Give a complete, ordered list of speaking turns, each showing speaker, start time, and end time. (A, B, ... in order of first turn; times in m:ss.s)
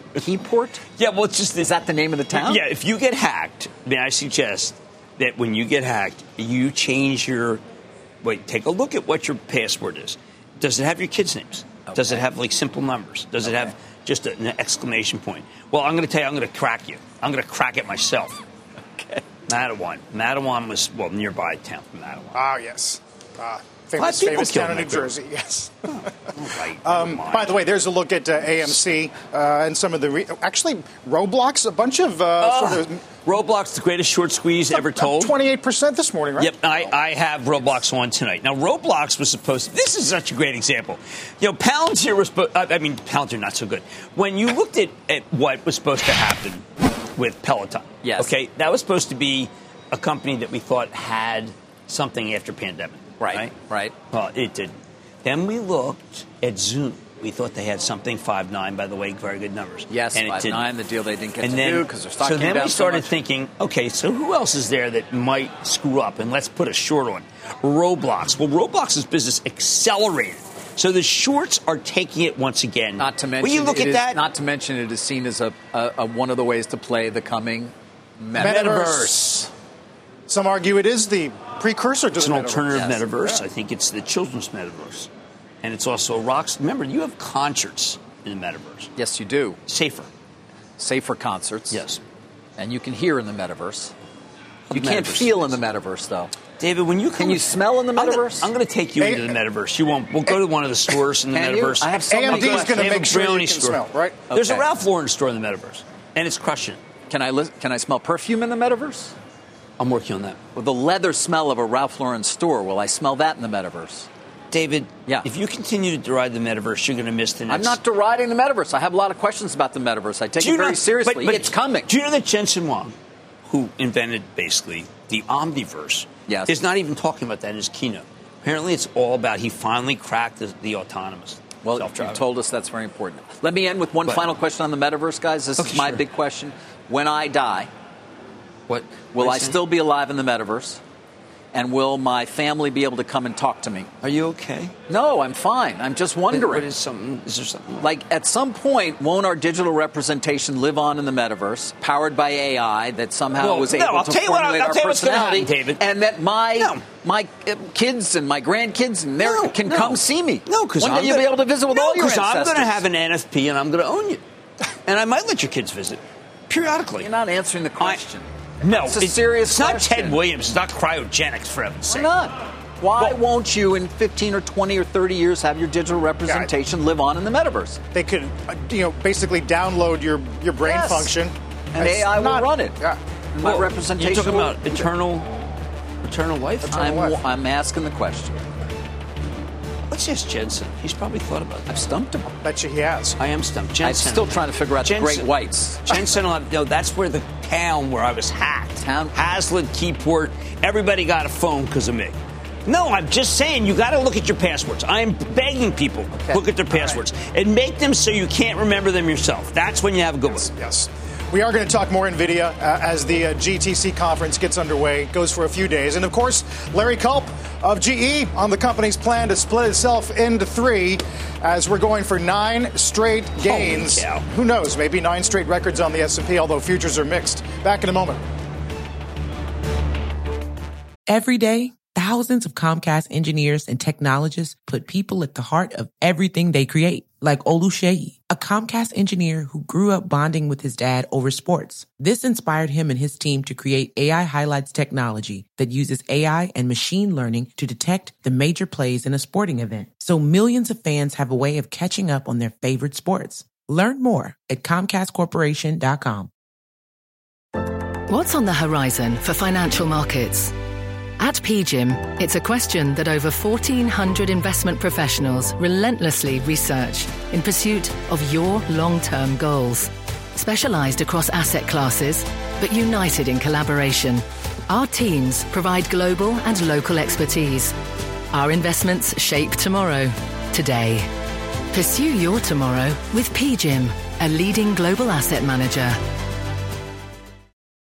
0:00.1-0:00.8 A
0:01.0-0:01.7 B
0:01.6-0:02.6 A
0:02.3-0:07.6 B
0:08.2-0:18.4 B
0:11.9-0:12.2 A
0:19.5-0:22.4 B
0:22.3-0:26.3 C
0:24.0-0:25.1 B
0:25.9-0:27.6 B
0:26.8-0:33.0 C
0:32.4-0:35.4 B
0:34.7-0:36.9 C
0:36.4-0:53.5 B
0:48.0-0:48.3 A
0:53.2-0:53.9 A
0:54.1-0:54.7 B
0:55.2-1:00.6 B
0:59.9-1:03.1 A
1:01.4-1:14.2 B
1:13.0-1:18.7 A
1:18.4-1:19.3 C
1:18.4-1:19.5 B
1:20.3-1:23.4 C
1:22.2-1:25.1 B
1:22.7-1:23.0 A
1:25.6-1:28.9 B
1:29.0-1:29.6 A
1:29.7-1:30.1 B
1:30.8-1:31.8 A
1:31.7-1:32.0 B
1:32.6-1:33.9 A
1:34.7-1:35.5 B
1:34.7-1:36.3 A
1:36.6-1:46.8 B
1:37.2-1:38.5 A
1:39.0-1:39.3 C
1:41.3-1:43.1 A
1:42.1-1:44.2 C
1:44.3-1:44.7 A
1:47.1-1:49.1 A
1:49.8-1:50.4 B
1:50.5-1:54.1 A
1:54.5-1:57.8 B
1:57.5-2:01.9 A
2:00.4-2:02.9 B
2:03.5-2:12.2 B
2:06.3-2:06.6 A
2:11.6-2:17.7 A
2:15.6-2:16.0 B
2:18.7-2:19.6 B
2:19.1-2:20.8 A
2:21.5-2:23.9 A
2:24.0-2:24.7 B
2:24.9-2:26.6 A
2:26.3-2:27.9 B
2:27.8-2:42.8 A
2:33.4-2:35.8 B
2:36.6-2:36.8 B
2:39.2-2:44.2 B
2:44.8-2:47.1 B
2:47.0-2:50.2 A
2:48.6-2:52.1 B
2:51.8-2:57.8 A
2:57.9-3:03.0 C
3:00.6-3:01.1 A
3:01.7-3:02.8 A
3:03.3-3:04.9 A
3:03.4-3:05.3 B
3:06.0-3:06.8 B
3:06.6-3:07.2 C
3:06.7-3:08.4 A
3:09.9-3:11.8 B
3:11.7-3:12.3 A
3:12.4-3:13.2 C
3:13.2-3:15.3 B
3:13.8-3:15.9 A
3:15.8-3:22.1 B
3:18.8-3:19.2 A
3:22.6-3:30.5 B
3:26.1-3:27.0 A
3:30.3-3:48.2 C
3:43.4-3:44.2 B
3:51.1-4:16.3 D
4:18.1-4:20.5 E
4:21.2-4:37.7 E
4:38.3-4:41.1 E
4:41.7-4:46.0 E